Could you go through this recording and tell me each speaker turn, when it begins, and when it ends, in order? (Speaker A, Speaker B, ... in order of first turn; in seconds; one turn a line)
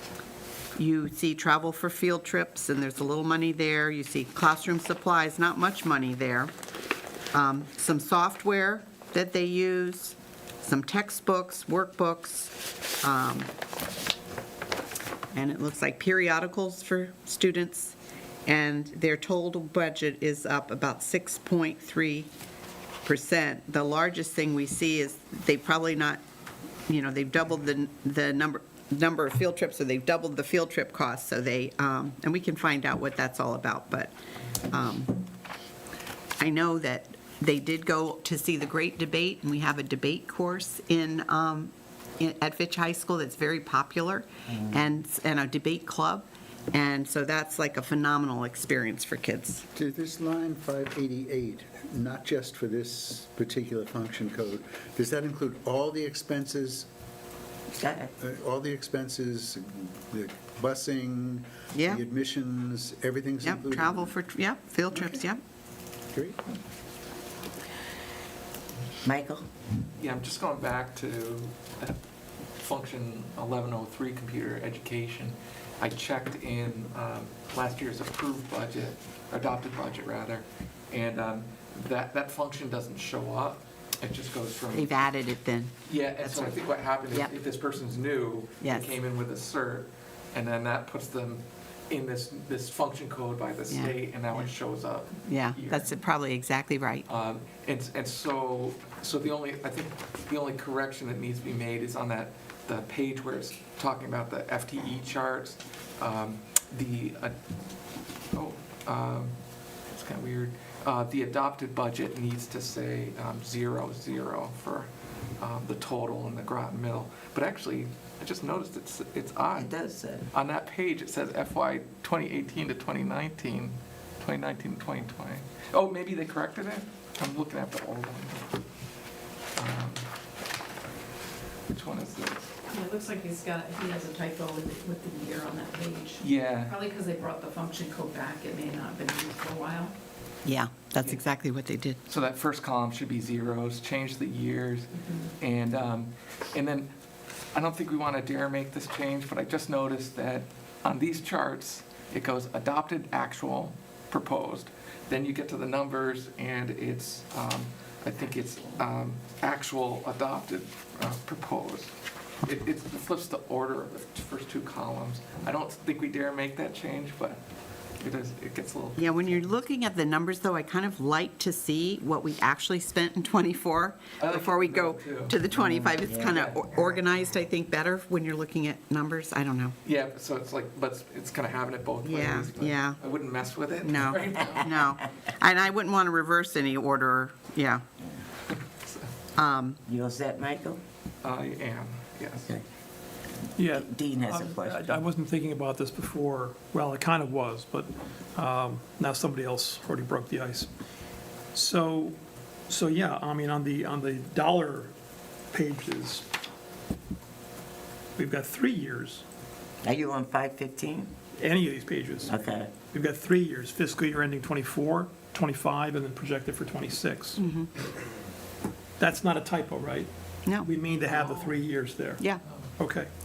Speaker A: 0.7-6.5
Speaker A: 7.3-13.5
Speaker A: 15.3-22.3
Speaker A: 23.0-26.2
Speaker A: 26.9-34.1
Speaker A: 34.6-35.2
Speaker A: 36.4-49.6
Speaker B: 49.7-56.9
Speaker C: 57.8-58.1
Speaker B: 58.2-64.1
Speaker A: 61.7-62.0
Speaker A: 63.4-65.4
Speaker B: 66.1-66.4
Speaker C: 69.0-69.5
Speaker D: 70.0-72.0
Speaker D: 72.6-85.0
Speaker A: 84.7-86.6
Speaker D: 85.8-95.9
Speaker A: 88.6-89.0
Speaker A: 93.7-93.9
Speaker A: 95.3-97.0
Speaker D: 97.1-107.3
Speaker D: 108.3-109.3
Speaker D: 109.9-114.9
Speaker D: 115.4-119.7
Speaker C: 119.5-120.3
Speaker D: 120.3-128.6
Speaker D: 129.5-130.0
Speaker D: 131.7-132.5
Speaker E: 132.7-139.9
Speaker D: 136.2-136.8
Speaker A: 140.4-142.0
Speaker D: 142.1-146.9
Speaker D: 147.5-167.4
Speaker D: 168.0-169.1
Speaker A: 169.0-179.7
Speaker D: 174.2-175.3
Speaker C: 175.6-176.4
Speaker D: 176.2-176.6
Speaker D: 179.8-184.8
Speaker A: 182.0-183.0
Speaker A: 183.8-187.8
Speaker D: 188.5-189.1
Speaker A: 189.3-189.8
Speaker C: 189.8-190.8
Speaker D: 191.2-192.5
Speaker F: 193.6-200.7
Speaker C: 193.7-195.0
Speaker F: 201.5-204.9
Speaker F: 205.5-206.3
Speaker F: 208.2-209.2
Speaker C: 209.8-211.1
Speaker F: 211.3-217.4
Speaker C: 212.2-212.7
Speaker A: 217.4-217.7
Speaker F: 219.0-222.2
Speaker D: 221.2-221.5
Speaker F: 222.8-223.1